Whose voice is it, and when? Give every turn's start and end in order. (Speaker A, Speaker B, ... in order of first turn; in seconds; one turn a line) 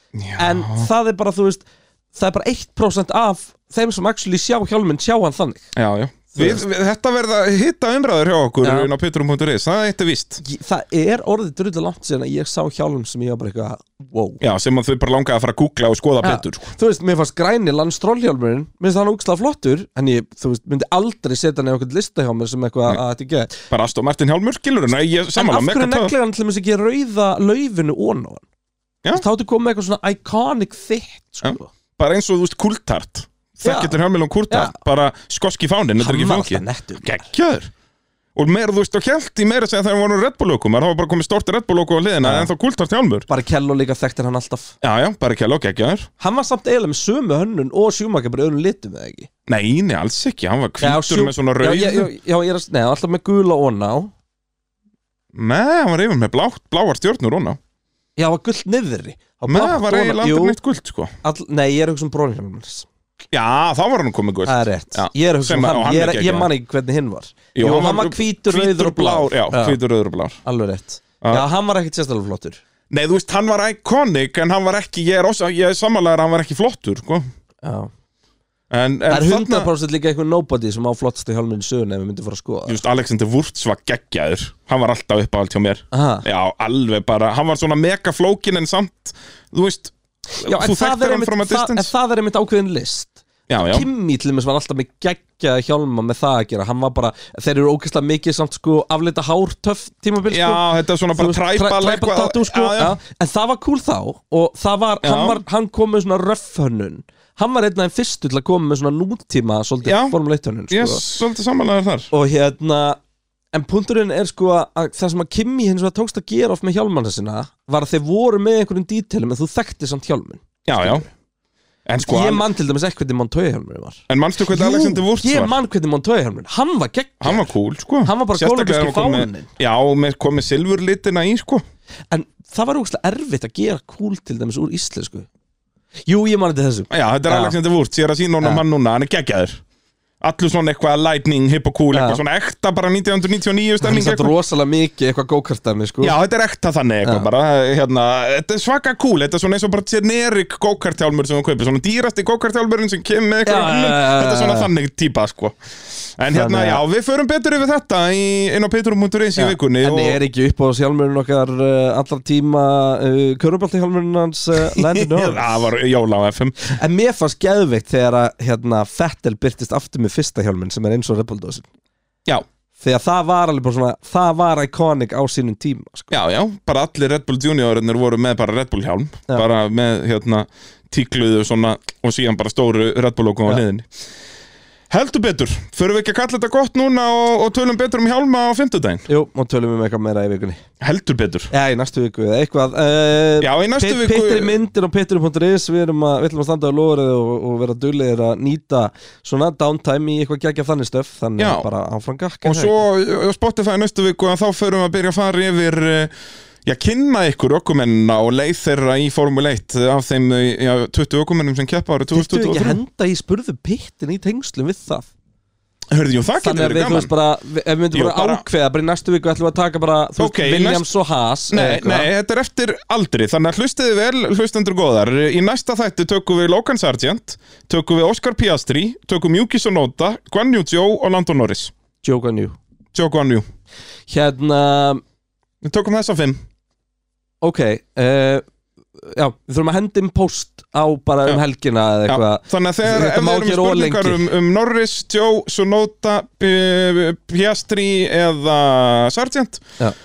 Speaker A: 0.1-0.9
Speaker B: 0.4-5.7
Speaker A: 5.8-10.4
Speaker B: 6.3-6.6
Speaker B: 8.6-8.9
Speaker B: 10.4-14.4
Speaker A: 14.4-16.7
Speaker B: 16.2-23.6
Speaker A: 23.7-26.1
Speaker B: 25.3-28.4
Speaker B: 29.1-31.7
Speaker A: 31.4-37.7
Speaker B: 33.6-34.0
Speaker B: 34.5-34.8
Speaker B: 36.0-37.2
Speaker A: 38.3-43.3
Speaker B: 42.2-42.5
Speaker B: 43.3-44.8
Speaker A: 44.8-46.1
Speaker B: 46.2-49.3
Speaker A: 49.5-52.1
Speaker B: 50.8-54.1
Speaker A: 55.3-57.6
Speaker B: 58.2-60.6
Speaker A: 59.5-61.1
Speaker B: 61.2-62.9
Speaker A: 63.3-66.5
Speaker B: 64.5-69.8
Speaker A: 67.5-70.4
Speaker B: 70.4-72.6
Speaker A: 72.9-77.2
Speaker B: 77.6-77.9
Speaker A: 78.7-79.7
Speaker B: 79.1-82.8
Speaker A: 82.7-91.9
Speaker B: 85.9-86.2
Speaker B: 90.4-111.0
Speaker A: 93.5-93.9
Speaker A: 100.3-103.0
Speaker A: 105.0-105.4
Speaker A: 109.8-110.1
Speaker A: 110.7-112.1
Speaker B: 112.1-113.0
Speaker B: 113.5-121.1
Speaker A: 120.6-121.0
Speaker A: 121.8-122.5
Speaker B: 122.0-127.5
Speaker A: 124.1-125.5
Speaker A: 127.2-131.6
Speaker B: 128.0-129.5
Speaker B: 132.1-135.3
Speaker B: 136.1-137.6
Speaker A: 136.9-139.6
Speaker A: 140.2-144.3
Speaker B: 141.9-142.2
Speaker B: 143.8-146.2
Speaker A: 146.0-160.2
Speaker B: 153.4-154.7
Speaker B: 156.3-156.8
Speaker B: 159.3-165.7
Speaker A: 164.7-166.7
Speaker B: 166.6-171.7
Speaker B: 172.8-176.1
Speaker A: 176.1-183.9
Speaker A: 184.9-189.1
Speaker B: 189.1-190.6
Speaker A: 190.8-191.5
Speaker B: 191.5-202.8
Speaker A: 193.4-194.6
Speaker A: 201.4-201.7
Speaker A: 202.4-206.1
Speaker A: 206.6-212.8
Speaker B: 212.1-215.1
Speaker A: 215.9-217.1
Speaker B: 216.4-222.1
Speaker A: 217.9-218.4
Speaker A: 220.2-220.9
Speaker A: 221.5-231.7
Speaker B: 232.0-232.6
Speaker A: 232.9-233.4
Speaker B: 234.1-235.0
Speaker A: 235.6-236.4
Speaker B: 237.4-238.4
Speaker B: 239.0-244.2
Speaker A: 242.1-249.6